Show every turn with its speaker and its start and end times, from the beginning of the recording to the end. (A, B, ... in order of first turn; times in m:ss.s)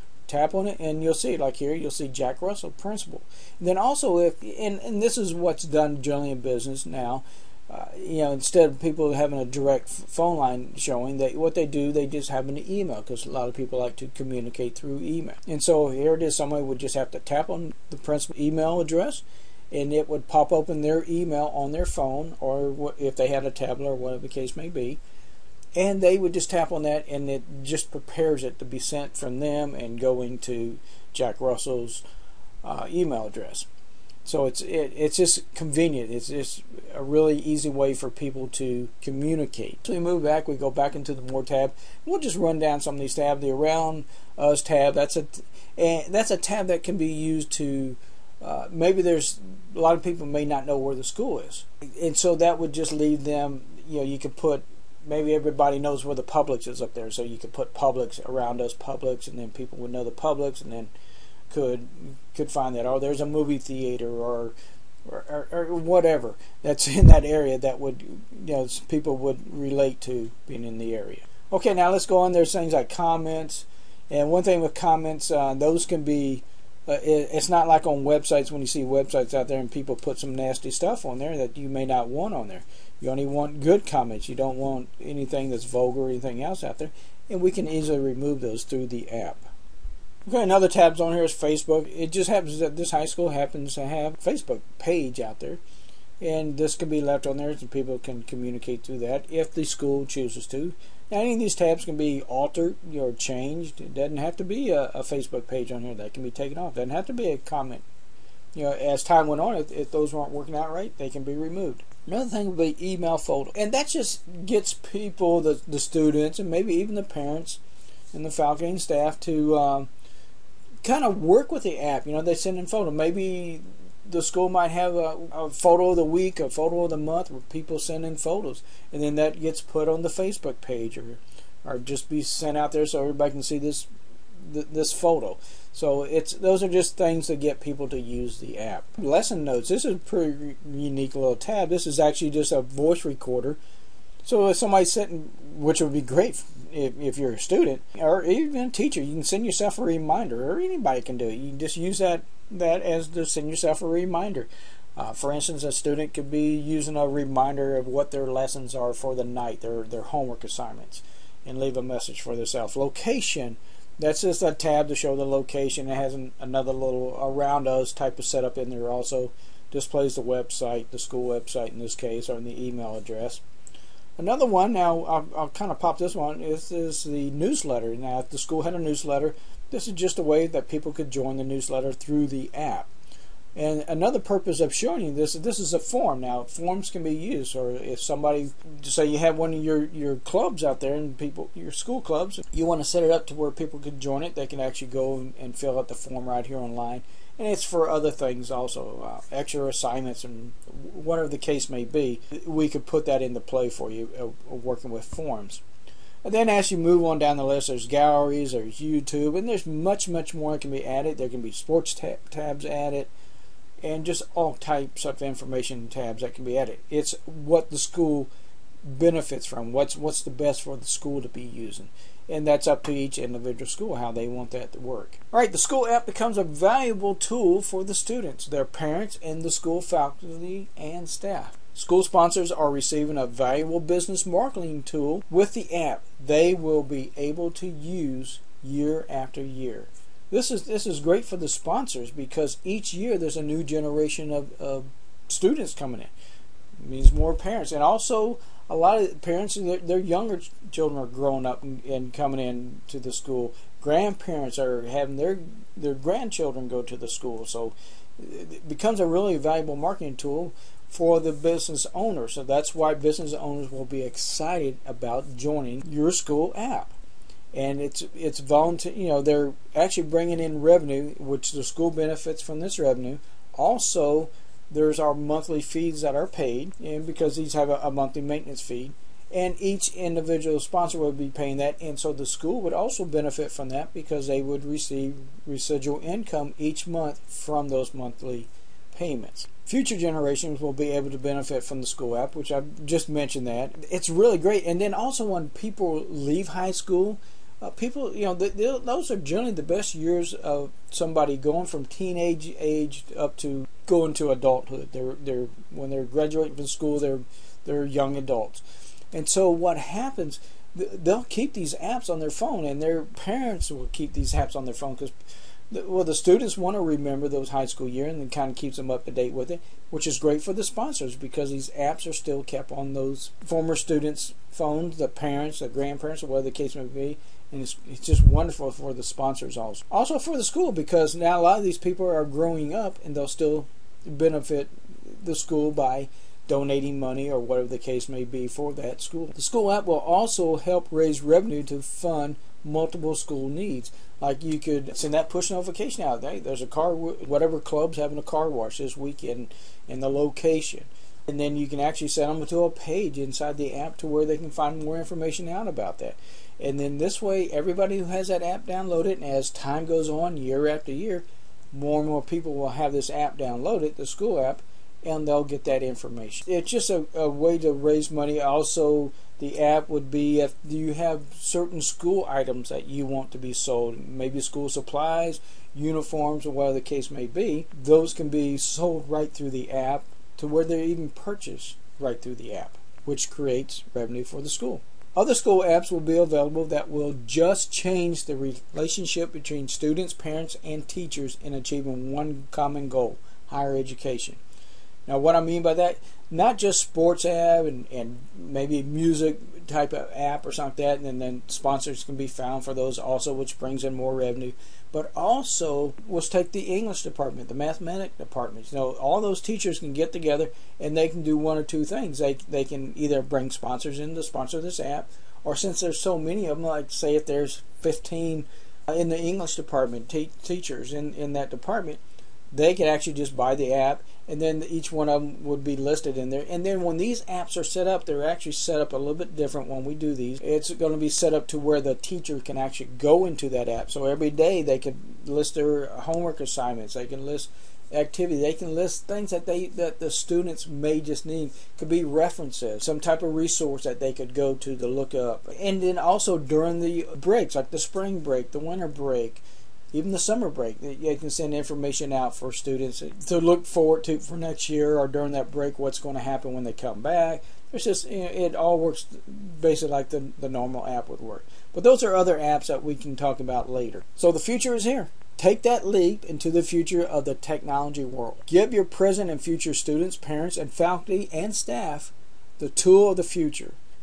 0:00.3-0:25.0 A
0:25.8-0:32.0 A
0:32.6-0:33.7 A
0:34.2-1:00.9 A
1:01.5-1:04.6 A
1:05.1-1:29.5 A
1:30.3-1:35.6 A
1:36.2-1:47.8 A
1:48.5-1:57.6 A
1:58.1-1:59.9 A
2:00.8-2:13.9 A
2:14.4-2:23.6 A
2:24.2-2:53.4 A
2:54.2-3:02.9 A
3:03.6-3:25.6 A
3:26.2-3:33.1 A
3:33.8-3:38.3 A
3:38.8-4:06.1 A
4:06.8-4:27.0 A
4:27.5-5:15.1 A
5:15.7-6:34.4 A
6:35.1-7:02.0 A
7:02.5-7:53.8 A